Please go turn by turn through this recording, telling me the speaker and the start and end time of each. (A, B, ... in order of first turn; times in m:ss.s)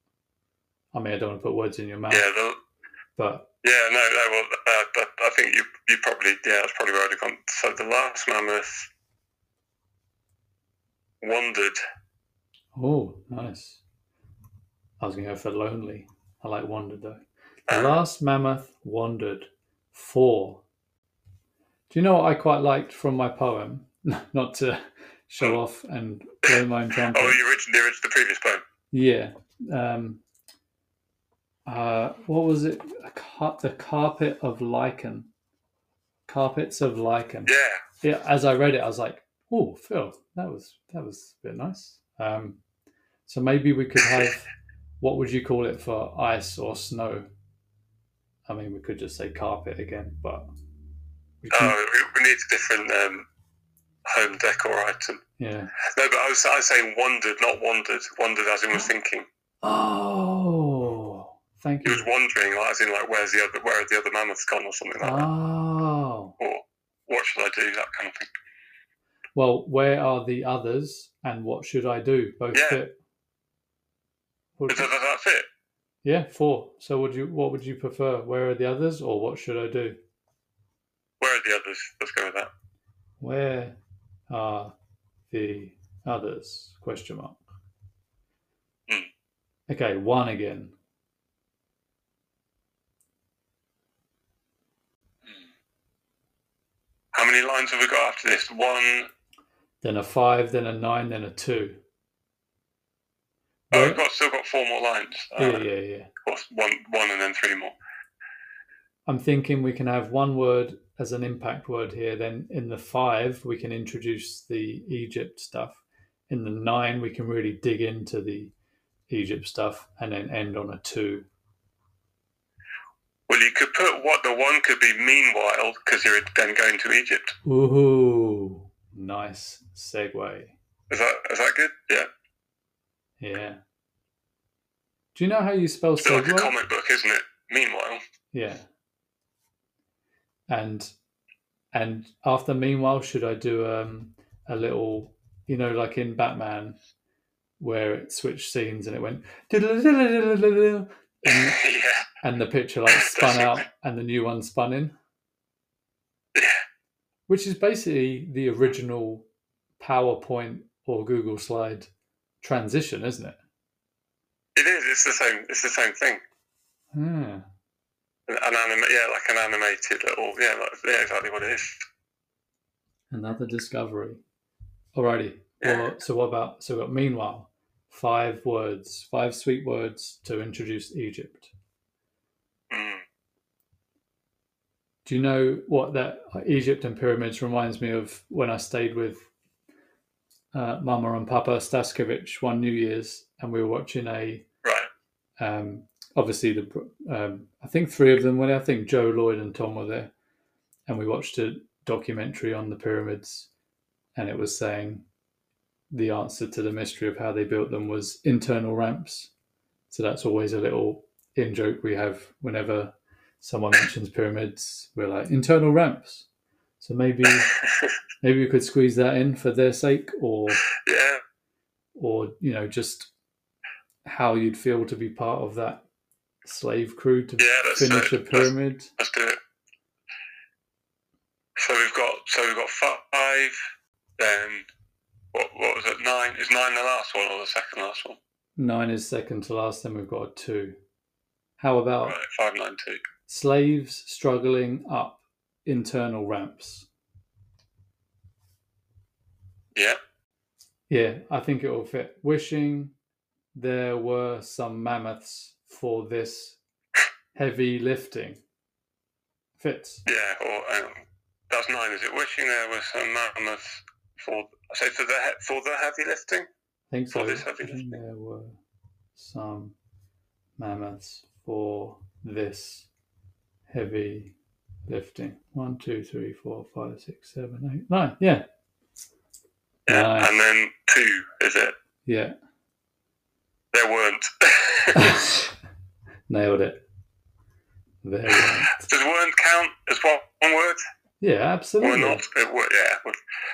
0:00.9-0:02.3 A
0:02.1-0:02.6 B
0:03.2-0:03.5 A
0:03.6-0:08.9 B
0:11.2-0:11.8 B
0:12.7-0:13.8 A
0:15.0-0:20.6 A
0:17.7-0:17.9 B
0:21.9-0:27.4 A
0:27.1-0:28.6 B
0:28.9-0:30.2 A
0:31.6-0:35.3 A
0:36.3-0:42.6 A
0:37.5-0:37.8 B
0:43.3-0:44.5 A
0:45.0-0:47.3 A
0:48.5-0:50.5 A
0:51.4-0:51.8 A
0:51.5-0:53.3 B
0:54.1-0:55.2 B
0:55.4-0:55.7 A
0:55.8-0:59.2 B
0:59.6-1:02.1 A
1:01.8-1:05.3 B
1:05.0-1:06.4 A
1:06.4-1:08.3 B
1:09.4-1:12.9 A
1:12.5-1:12.8 B
1:14.6-1:14.9 A
1:14.7-1:15.5 B
1:16.0-1:20.0 A
1:21.2-1:22.5 B
1:23.2-1:23.8 A
1:24.3-1:24.7 A
1:25.3-1:27.4 A
1:29.7-1:30.7 A
1:37.1-1:39.1 B
1:39.8-1:41.8 A
1:43.7-1:45.6 B
1:43.7-1:44.0 A
1:45.4-1:46.1 A
1:46.2-1:47.7 B
1:49.1-1:58.5 A
1:59.1-2:01.3 A
2:03.3-2:07.4 B
2:07.4-2:10.6 A
2:10.9-2:12.1 B
2:13.2-2:13.6 A
2:15.1-2:16.5 A
2:16.0-2:18.0 B
2:18.3-2:18.7 A
2:20.5-2:20.9 A
2:21.7-2:26.8 A
2:27.6-2:31.6 A
2:31.3-2:32.0 B
2:32.2-2:34.9 A
2:32.9-2:33.6 B
2:36.4-2:36.6 B
2:37.3-2:39.2 A
2:39.8-2:41.9 A
2:42.4-2:43.4 A
2:44.6-2:46.2 B
2:46.9-2:47.4 A
2:48.3-2:51.9 B
2:53.1-2:54.2 A
2:55.0-3:01.5 A
2:55.6-2:55.9 B
3:02.7-3:03.0 B
3:05.0-3:09.3 A
3:10.5-3:14.4 A
3:14.6-3:14.9 B
3:15.4-3:20.1 A
3:20.9-3:23.5 A
3:24.2-3:25.0 A
3:25.9-3:29.3 A
3:29.9-3:36.3 A
3:36.8-3:37.5 A
3:37.5-3:37.9 B
3:38.2-3:40.6 A
3:40.7-3:41.2 B
3:41.9-3:43.1 A
3:44.1-3:45.8 A
3:46.4-3:48.9 A
3:47.4-3:49.4 B
3:51.6-3:53.6 B
3:54.2-3:54.7 B
3:55.3-3:58.2 B
3:58.6-4:00.8 A
4:01.6-4:02.2 A
4:02.0-4:03.0 B
4:03.3-4:06.9 A
4:10.9-4:12.9 A
4:13.6-4:16.6 A
4:17.4-4:18.4 A
4:19.6-4:20.1 A
4:20.1-4:26.5 B
4:26.9-4:28.6 A
4:27.1-4:28.0 B
4:29.2-4:29.7 A
4:30.6-4:32.9 A
4:33.7-4:34.4 A
4:34.9-4:38.4 A
4:39.9-4:41.7 B
4:39.9-4:40.4 A
4:42.1-4:42.3 A
4:43.7-4:45.1 B
4:44.9-4:45.5 A
4:46.3-4:46.8 A
4:48.0-4:48.8 A
4:48.3-4:50.8 B
4:51.2-4:52.2 A
4:51.8-4:53.2 B